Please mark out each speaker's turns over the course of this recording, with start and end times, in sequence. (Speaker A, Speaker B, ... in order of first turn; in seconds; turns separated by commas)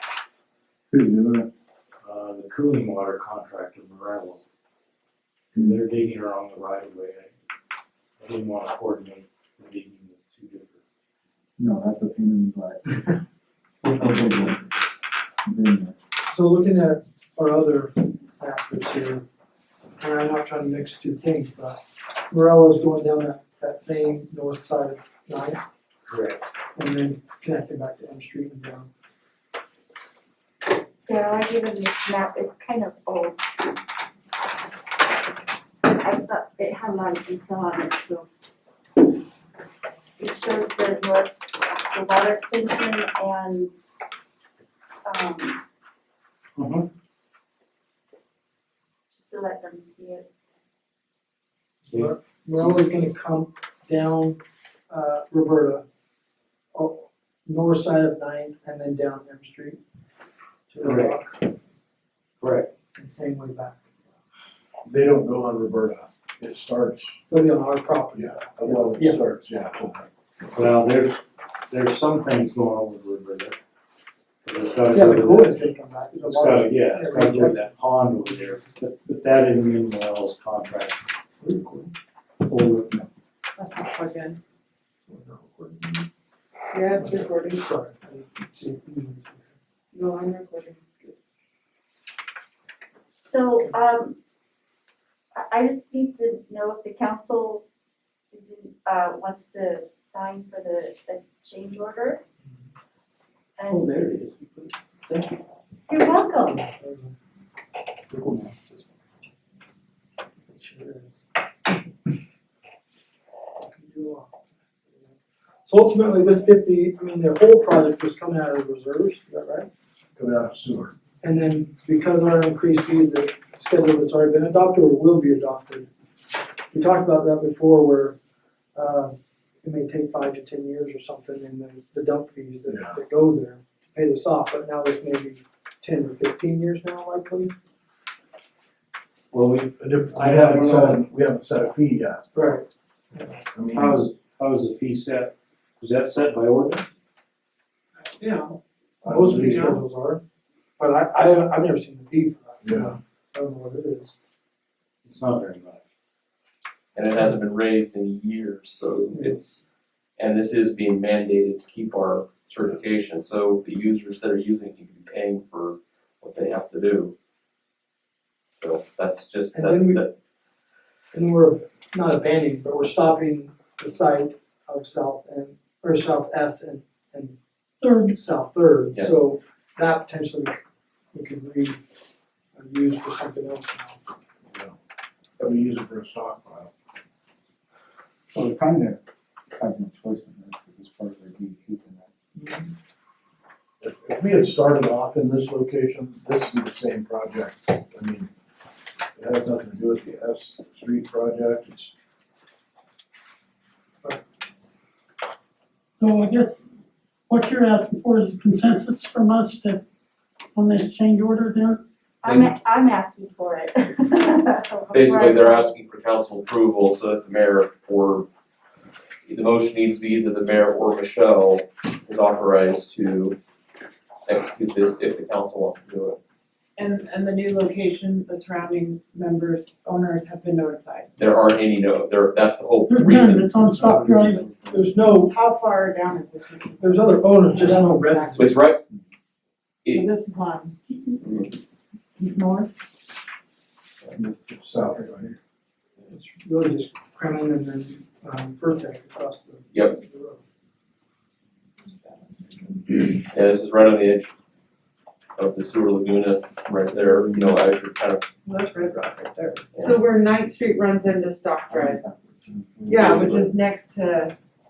Speaker A: 0.9-1.5, Speaker B: 2.0-4.4, Speaker B: 5.5-7.3, Speaker B: 8.2-10.8, Speaker A: 11.6-13.0, Speaker A: 13.8-14.6, Speaker A: 15.4-16.0, Speaker C: 16.3-19.2, Speaker C: 20.0-25.6, Speaker B: 26.1-26.4, Speaker C: 26.8-28.9, Speaker D: 31.1-33.4, Speaker D: 35.8-38.3, Speaker D: 40.2-43.7, Speaker D: 45.0-45.6, Speaker B: 46.6-46.9, Speaker D: 49.2-50.2, Speaker C: 51.9-54.4, Speaker B: 51.9-52.7, Speaker C: 54.9-55.8, Speaker C: 56.7-59.8, Speaker C: 60.7-61.4, Speaker B: 60.8-61.2, Speaker B: 62.4-62.7, Speaker C: 63.0-63.8, Speaker E: 64.8-67.2, Speaker C: 67.3-69.2, Speaker E: 68.2-70.1, Speaker B: 70.5-73.6, Speaker B: 74.5-75.6, Speaker C: 74.9-77.6, Speaker B: 76.1-81.0, Speaker C: 81.4-81.9, Speaker F: 83.6-84.4, Speaker C: 85.1-86.1, Speaker F: 86.7-87.7, Speaker C: 87.0-89.5, Speaker F: 89.9-91.2, Speaker D: 93.2-94.2, Speaker D: 95.4-97.6, Speaker D: 98.3-102.2, Speaker D: 103.6-104.0, Speaker B: 103.7-105.4, Speaker D: 105.9-106.7, Speaker C: 106.6-107.1, Speaker A: 108.1-108.8, Speaker C: 110.5-111.2, Speaker C: 113.6-114.3, Speaker C: 115.7-119.7, Speaker E: 120.2-120.9, Speaker C: 121.2-125.9, Speaker C: 126.7-128.2, Speaker C: 128.8-137.5, Speaker E: 132.7-132.9, Speaker B: 139.3-141.0, Speaker E: 139.8-142.2, Speaker C: 142.3-143.4, Speaker E: 143.5-144.0, Speaker B: 143.7-146.9, Speaker F: 148.0-148.6, Speaker E: 149.0-149.8, Speaker C: 149.1-150.2, Speaker C: 150.8-154.2, Speaker E: 152.6-152.9, Speaker B: 155.1-155.8, Speaker G: 156.9-159.6, Speaker C: 159.1-159.4, Speaker G: 160.2-167.1, Speaker G: 168.6-170.1, Speaker C: 169.5-170.0, Speaker C: 171.1-177.4, Speaker H: 177.8-178.2, Speaker C: 178.0-180.6, Speaker C: 181.1-181.8, Speaker C: 182.6-184.0, Speaker E: 185.4-186.7, Speaker A: 188.3-189.0, Speaker A: 189.5-192.1, Speaker C: 192.4-192.7, Speaker E: 193.8-198.3, Speaker E: 199.2-201.9, Speaker H: 206.0-206.6, Speaker H: 207.3-209.8, Speaker H: 210.5-211.8, Speaker D: 212.2-215.8, Speaker G: 212.2-212.5, Speaker G: 214.9-218.3, Speaker G: 219.2-223.4, Speaker G: 224.3-226.2, Speaker F: 226.8-231.1, Speaker G: 231.2-233.6, Speaker H: 232.9-234.4, Speaker A: 233.7-234.8, Speaker C: 234.7-235.3, Speaker F: 235.1-238.6, Speaker C: 236.8-238.7, Speaker G: 238.4-238.8, Speaker G: 239.8-240.1, Speaker F: 239.8-240.8, Speaker G: 241.2-241.5, Speaker F: 242.2-242.7, Speaker A: 244.1-245.0, Speaker E: 244.6-245.3, Speaker C: 246.1-250.4, Speaker F: 251.8-252.8, Speaker G: 253.1-254.3, Speaker G: 255.4-258.3, Speaker F: 258.4-262.0, Speaker G: 259.7-260.0, Speaker A: 261.7-263.5, Speaker E: 262.9-263.5, Speaker F: 262.9-264.4